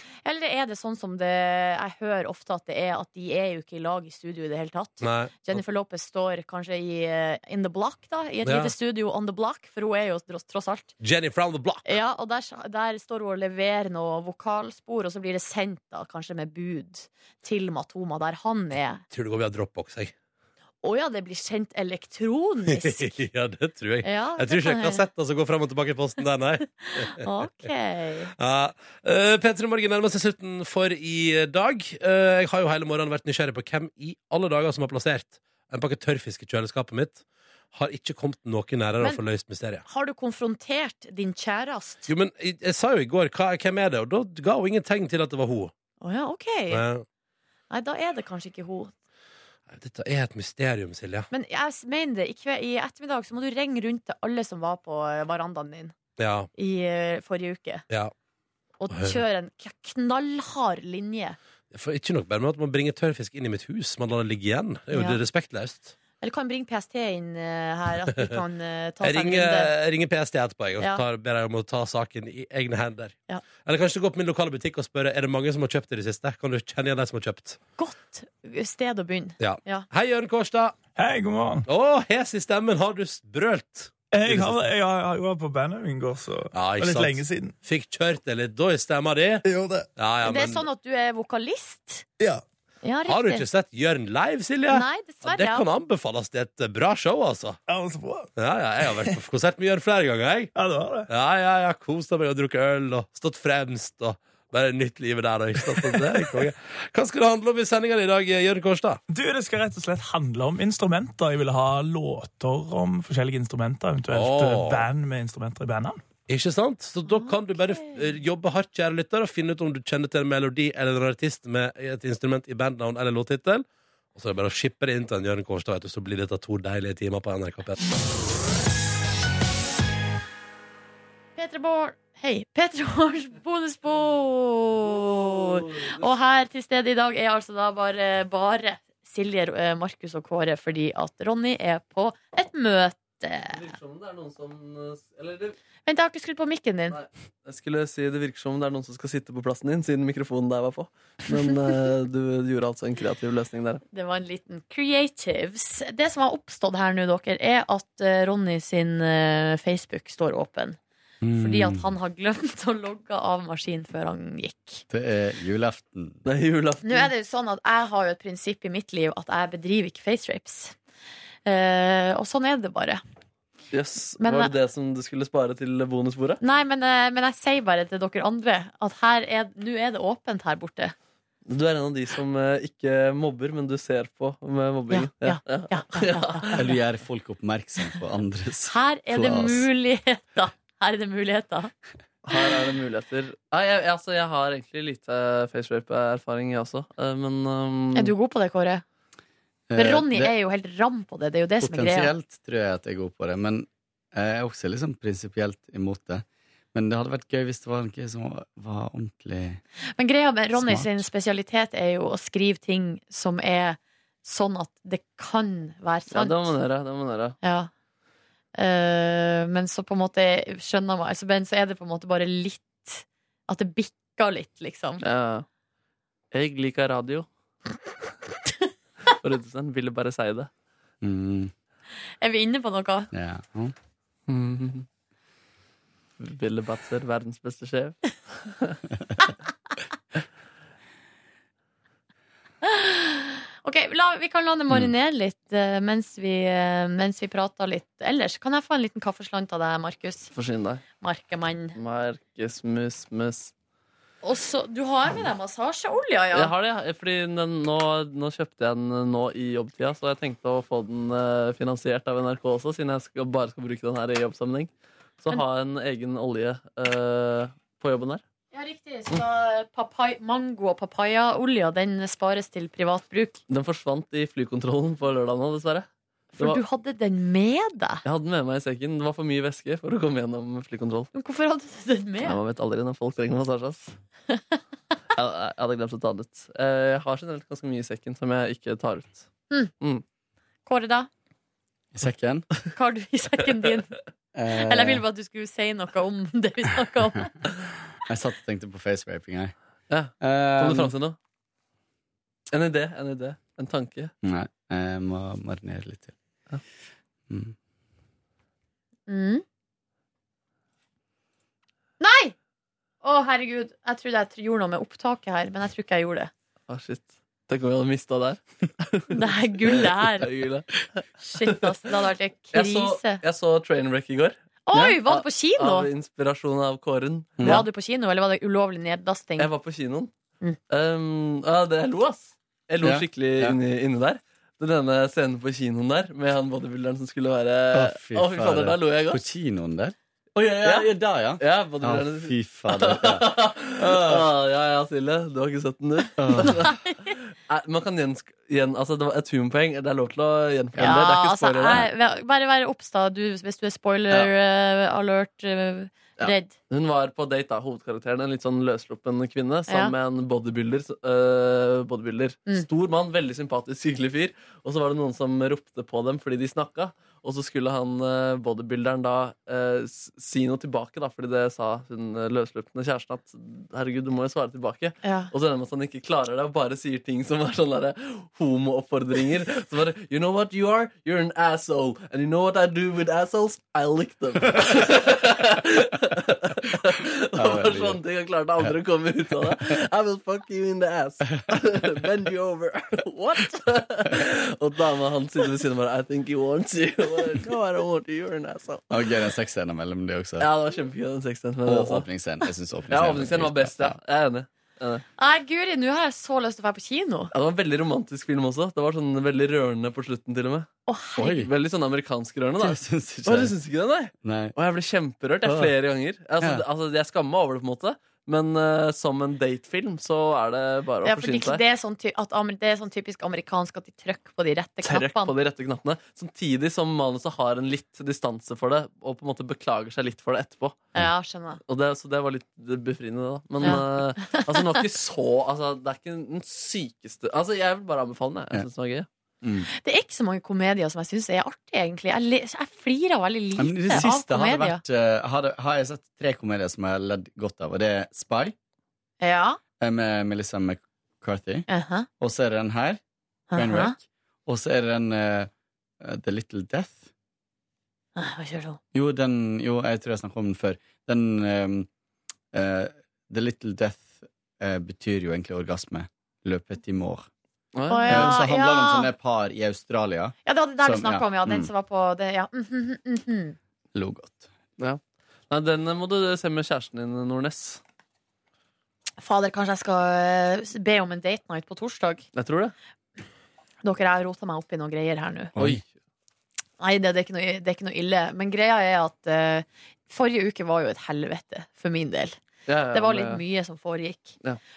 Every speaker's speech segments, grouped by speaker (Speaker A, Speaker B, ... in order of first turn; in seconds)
Speaker A: 0.2-10.9, 11.8-19.0, 20.8-23.2, 24.0-25.1, 26.8-28.3, 39.9-42.1, 46.0-46.8, 47.7-48.9, 51.3-55.9, 56.5-57.8, 58.8-61.4, 64.9-65.2, 66.2-69.7, 77.8-79.9, 90.2-92.0, 92.8-93.5, 94.7-95.7, 117.1-118.0, 131.3-143.5, 145.8-147.0, 153.9-160.8, 161.4-164.8, 166.8-170.8, 171.4-173.0, 174.2-174.5, 176.4-180.9, 184.9-186.6, 188.7-191.7, 197.9-198.8, 199.8-202.1, 209.9-216.6, 217.4-217.7, 218.5-225.0, 232.2-233.1, 242.6-250.3, 251.0-251.8, 254.2-256.5, 268.5-273.4, 276.4-278.0, 281.1-282.4, 290.6-291.1, 292.7-293.9, 294.6-297.3, 309.1-309.4, 312.0-312.3, 313.0-316.3, 319.1-320.3, 321.2-323.2, 324.7-325.9, 327.4-329.5, 346.4-346.9, 350.8-356.5, 359.7-359.9, 375.0-375.3, 405.2-407.3, 410.9-411.3, 421.0-425.3, 430.9-431.6, 433.6-434.5, 439.7-444.8, 449.2-449.6, 451.7-452.1, 453.5-453.9, 458.1-458.8, 467.9-469.1, 470.4-473.6, 479.2-482.2, 483.8-485.5, 486.8-492.4, 492.9-494.4
Speaker B: 5.0-5.6, 8.4-8.7, 11.0-11.9, 19.1-20.1, 22.6-27.3, 28.4-37.2, 37.7-39.8, 42.1-45.7, 46.7-47.0, 49.7-51.3, 56.2-56.5, 58.9-59.2, 61.7-65.9, 69.0-77.6, 79.4-80.8, 81.7-84.6, 86.5-90.7, 93.0-97.6, 98.3-100.5, 101.1-109.0, 114.1-114.9, 116.3-127.8
Speaker C: 81.0-81.7, 84.1-87.5, 89.4-89.9, 97.7-98.3, 100.5-101.1, 109.1-116.0
Speaker D: 134.8-136.1, 143.5-145.6, 146.9-153.8, 166.2-167.1, 173.7-176.4, 181.5-186.7, 192.2-198.1, 216.1-217.4, 225.0-225.4, 226.3-227.3, 229.1-230.5, 234.3-234.8, 236.2-238.8, 250.3-250.8, 251.8-253.5, 256.3-268.2, 273.5-275.9, 278.0-281.1, 282.2-283.9, 285.1-289.3, 299.9-301.1, 302.5-304.1, 316.7-321.7, 322.5-327.6, 329.4-330.1, 330.7-339.2, 340.6-351.9, 356.2-398.9, 400.4-402.1, 402.9-405.0, 407.3-410.7, 411.2-421.6, 424.8-430.9, 431.6-439.1, 467.7-468.4, 474.8-477.8, 482.3-482.7, 485.6-485.8, 492.7-493.4
Speaker E: 161.2-161.9, 164.9-166.2, 186.6-189.7, 199.7-200.3, 201.6-209.6, 210.5-211.1, 231.0-231.5, 233.1-233.7, 291.9-292.5, 294.3-295.0, 298.1-299.5, 300.2-300.9, 304.2-306.1, 307.3-307.5, 327.4-327.7, 332.8-333.6, 337.7-344.2, 346.2-346.7, 387.4-388.0, 389.3-389.6, 398.9-400.5, 401.6-403.9, 411.2-411.5, 412.6-413.5, 414.2-414.5, 415.4-415.7, 439.4-439.7, 443.6-448.5, 449.8-451.6, 452.2-453.0, 453.5-455.5, 456.0-457.1, 458.9-461.9, 462.5-467.3, 468.1-471.7, 473.9-474.5, 485.6-485.8